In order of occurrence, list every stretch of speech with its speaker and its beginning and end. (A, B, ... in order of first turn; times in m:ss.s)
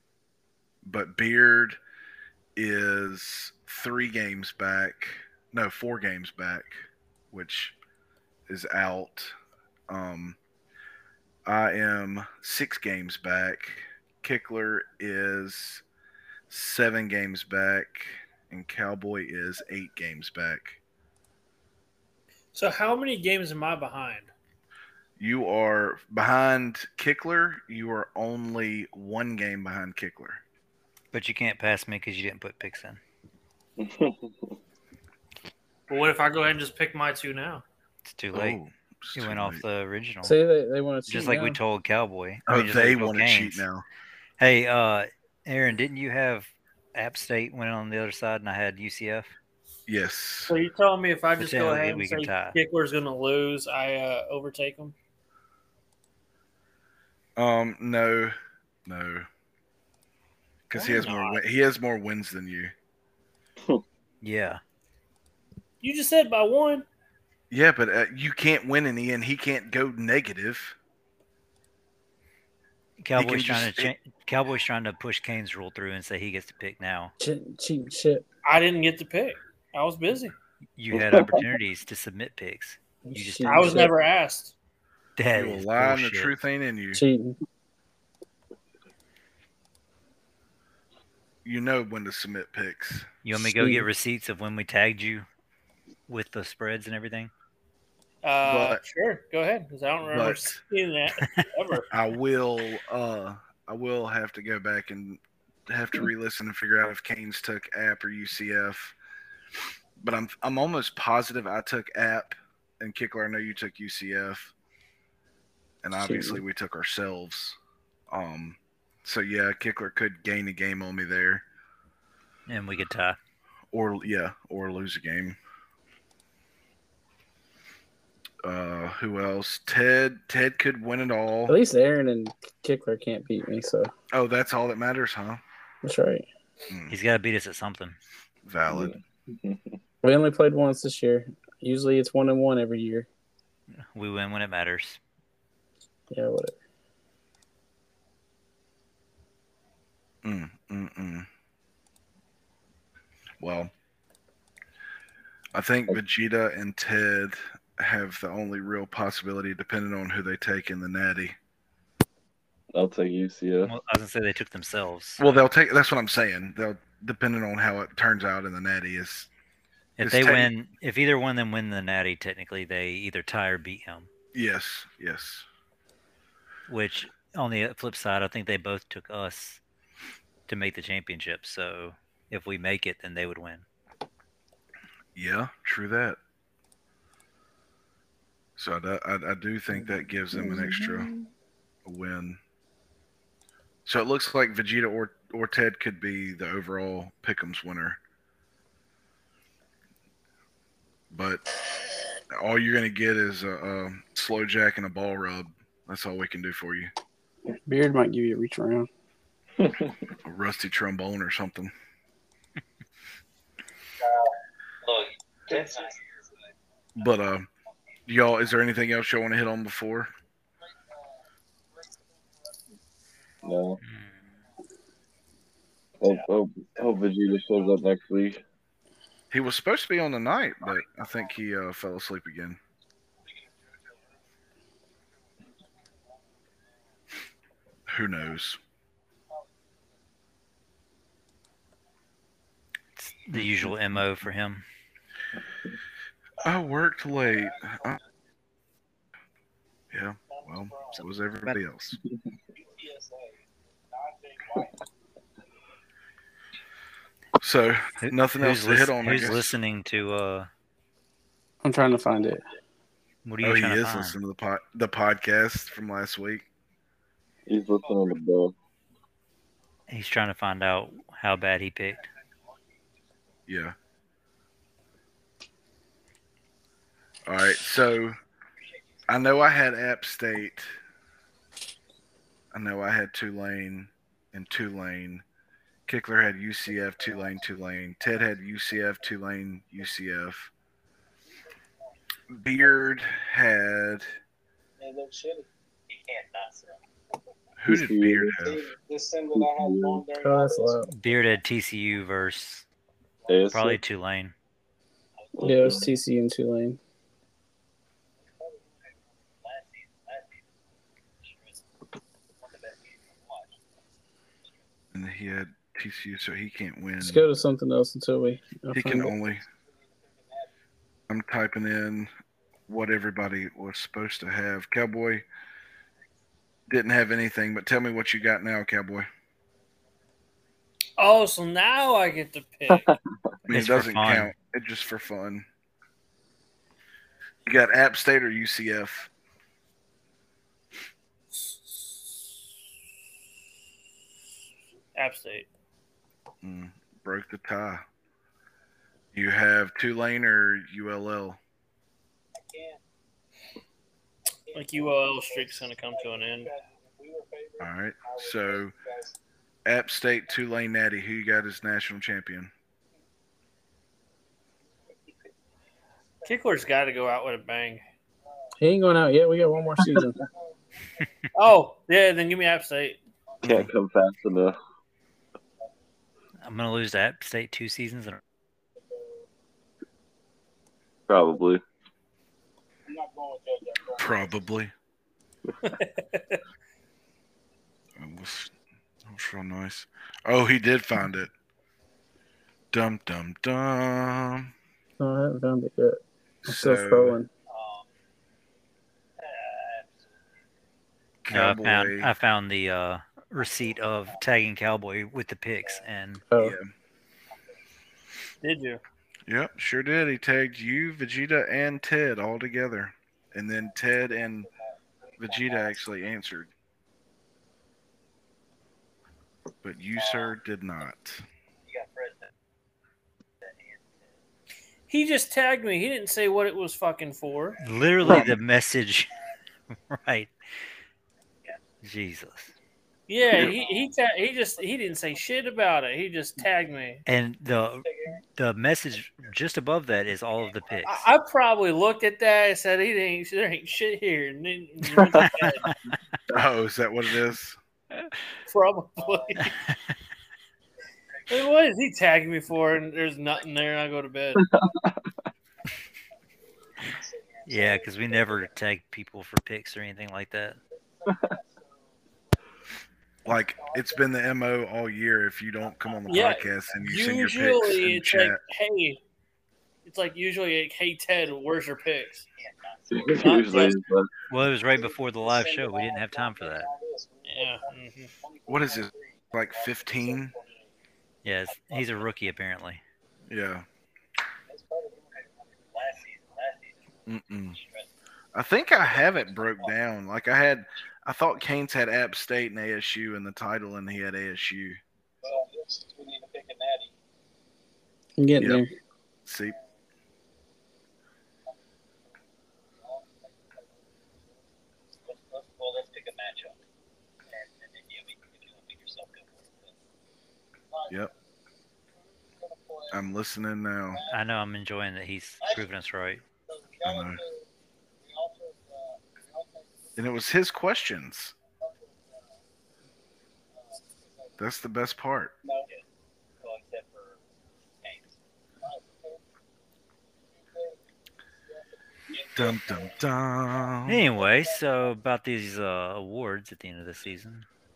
0:00.8-0:01.8 A
0:02.6-0:07.8 A
0:08.5-0:09.4 A
0:09.9-0:10.4 A
0:11.5-0:15.8 A
0:16.5-0:20.8 A
0:22.5-0:24.3 B
0:25.2-0:30.4 A
0:31.1-0:33.0 C
0:33.8-0:34.5 D
0:35.9-0:37.6 B
0:38.0-0:38.6 C
0:38.3-0:39.6 A
0:39.2-0:40.4 C
0:40.2-0:41.6 E
0:41.1-0:43.6 C
0:42.5-0:43.8 A
0:44.4-0:49.3 C
0:49.9-0:50.5 A
0:50.5-0:54.9 B
0:51.4-0:52.6 C
0:57.4-0:58.4 A
0:58.9-0:59.3 A
1:00.7-1:02.7 A
1:00.7-1:01.4 B
1:04.2-1:04.6 C
1:05.8-1:06.9 B
1:07.5-1:10.8 A
1:13.0-1:17.1 C
1:13.2-1:13.9 A
1:17.2-1:18.2 E
1:18.4-1:20.4 B
1:20.8-1:23.9 C
1:20.9-1:21.4 D
1:23.1-1:23.9 E
1:23.5-1:24.5 B
1:25.2-1:26.3 C
1:25.3-1:27.0 A
1:26.9-1:27.4 E
1:31.4-1:33.1 A
1:33.2-1:35.3 C
1:33.3-1:33.9 E
1:36.1-1:37.3 C
1:38.2-1:41.9 B
1:38.4-1:38.8 A
1:40.1-1:40.6 A
1:41.9-1:49.0 A
1:50.0-1:54.5 A
1:55.8-1:57.6 A
1:56.0-1:56.4 E
1:58.1-2:01.4 A
2:02.5-2:03.2 C
2:03.7-2:05.4 A
2:08.4-2:11.6 A
2:11.5-2:13.9 E
2:14.1-2:15.4 A
2:15.8-2:16.3 E
2:16.7-2:17.0 A
2:16.9-2:18.0 C
2:18.4-2:18.9 A
2:18.7-2:19.8 D
2:20.0-2:23.1 E
2:23.9-2:25.0 C
2:26.1-2:26.6 E
2:30.2-2:31.3 A
2:33.4-2:33.7 A
2:35.5-2:41.4 A
2:42.7-2:43.7 D
2:43.7-2:45.2 C
2:45.2-2:49.3 A
2:50.0-2:54.1 C
2:50.0-2:50.5 A
2:54.3-2:55.5 A
2:56.7-2:59.6 C
3:00.5-3:03.6 C
3:05.2-3:06.2 A
3:08.6-3:11.1 A
3:11.9-3:12.4 A
3:13.9-3:18.0 A
3:21.1-3:21.5 A
3:22.3-3:26.9 A
3:27.7-3:28.9 E
3:29.6-3:30.0 D
3:30.2-3:31.7 A
3:34.9-3:36.0 F
3:37.0-3:37.5 A
3:38.1-3:40.1 A
3:41.8-3:42.6 F
3:43.4-3:43.7 F
3:43.4-3:43.8 D
3:43.8-3:44.1 C
3:46.0-3:48.4 D
3:49.3-3:52.6 A
3:53.3-3:54.2 F
3:57.9-3:58.6 A
4:03.0-4:04.6 C
4:06.4-4:08.0 A
4:07.3-4:08.0 F
4:09.9-4:12.0 A
4:10.3-4:11.0 F
4:12.6-4:14.8 F
4:17.4-4:19.5 A
4:18.0-4:20.5 C
4:21.6-4:22.4 E
4:23.2-4:24.2 C
4:23.4-4:26.4 A
4:27.5-4:28.5 D
4:29.9-4:32.1 C
4:33.5-4:33.8 A
4:37.3-4:38.2 A
4:39.1-4:40.7 A
4:42.5-4:45.2 A
4:45.9-4:50.5 A
4:47.0-4:47.4 F
4:52.3-4:54.1 A
4:54.8-4:56.8 F
4:57.6-4:58.6 A
4:57.7-4:58.4 D
4:58.3-5:01.2 F
4:59.4-5:00.0 D
5:00.2-5:00.9 E
5:00.9-5:02.6 C
5:03.3-5:03.8 D
5:03.5-5:04.4 C
5:05.4-5:05.9 D
5:05.4-5:06.8 E
5:08.3-5:10.3 F
5:12.4-5:13.5 F
5:14.9-5:17.3 A
5:17.0-5:19.1 E
5:18.7-5:19.4 A
5:19.4-5:20.5 F
5:21.1-5:22.1 A
5:22.7-5:25.2 A
5:26.7-5:29.1 A
5:31.0-5:32.9 B
5:32.7-5:33.0 D
5:33.5-5:35.5 A
5:33.5-5:34.3 C
5:37.5-5:39.1 A
5:41.3-5:41.9 B
5:45.0-5:45.5 B
5:46.4-5:47.8 A
5:49.1-5:51.4 A
5:52.4-5:52.8 F
5:54.5-5:59.2 F
5:54.5-5:56.5 B
5:57.6-5:58.7 A
5:59.7-6:02.5 A
6:06.2-6:07.8 B
6:08.6-6:10.2 E
6:10.4-6:11.1 F
6:11.3-6:13.0 B
6:13.4-6:13.7 A
6:13.4-6:14.6 D
6:16.4-6:18.2 C
6:18.8-6:19.2 F
6:21.1-6:21.6 D
6:22.9-6:24.4 F
6:24.0-6:24.7 A
6:25.6-6:26.4 B
6:28.0-6:28.5 A
6:29.1-6:31.3 A
6:32.7-6:34.5 A
6:35.0-6:37.3 E
6:36.4-6:37.2 A
6:37.5-6:37.8 F
6:39.2-6:39.9 F
6:41.2-6:42.1 A
6:41.3-6:46.2 C
6:43.4-6:44.2 F
6:46.3-6:46.6 E
6:46.4-6:46.7 A
6:48.4-6:48.8 B
6:49.3-6:54.5 A
6:54.0-6:55.8 F
6:55.2-6:56.5 A
6:59.6-7:01.2 A
7:00.0-7:00.3 F
7:01.7-7:02.2 F
7:04.9-7:07.6 B
7:07.6-7:09.2 C
7:09.9-7:10.3 C
7:11.8-7:12.5 C
7:13.1-7:17.0 B
7:13.4-7:13.9 F
7:14.6-7:15.0 F
7:17.1-7:21.0 C
7:17.8-7:18.2 F
7:20.6-7:21.0 F
7:20.8-7:25.8 B
7:26.3-7:27.6 A
7:28.5-7:29.6 B
7:29.0-7:29.5 F
7:31.3-7:34.4 B
7:34.4-7:35.0 D
7:36.8-7:38.5 F
7:37.5-7:40.6 C
7:40.7-7:42.0 F
7:41.1-7:41.3 D
7:43.2-7:48.4 A
7:43.3-7:44.0 F
7:45.6-7:46.7 F
7:46.1-7:49.0 B
7:49.8-7:52.3 B
7:52.7-7:53.6 F
7:52.9-7:54.1 D
7:53.1-7:53.8 B
7:54.3-7:56.7 C
7:54.7-8:00.7 F
7:57.3-7:58.1 B
7:58.5-8:00.3 A
8:01.2-8:02.8 C
8:01.5-8:02.0 F
8:03.3-8:03.7 A
8:04.5-8:06.8 F
8:07.1-8:07.6 A
8:08.3-8:14.8 A
8:15.2-8:16.9 F
8:18.2-8:18.7 E
8:18.4-8:18.6 A
8:19.3-8:19.6 A
8:22.8-8:24.0 F
8:25.0-8:26.6 F
8:27.3-8:29.7 F
8:30.7-8:31.1 F
8:32.0-8:33.0 F
8:32.9-8:34.0 A
8:33.9-8:34.2 F
8:34.1-8:36.2 C
8:36.5-8:37.5 F
8:36.8-8:37.2 A
8:38.0-8:40.0 F
8:40.0-8:41.4 A
8:41.6-8:42.3 F
8:43.6-8:44.3 F
8:44.4-8:45.3 A
8:45.4-8:45.8 F
8:46.4-8:47.2 F
8:48.6-8:49.2 F
8:50.4-8:50.8 F
8:51.5-8:53.1 F
8:52.4-8:54.1 A
8:53.9-8:57.5 C
8:54.2-8:54.6 F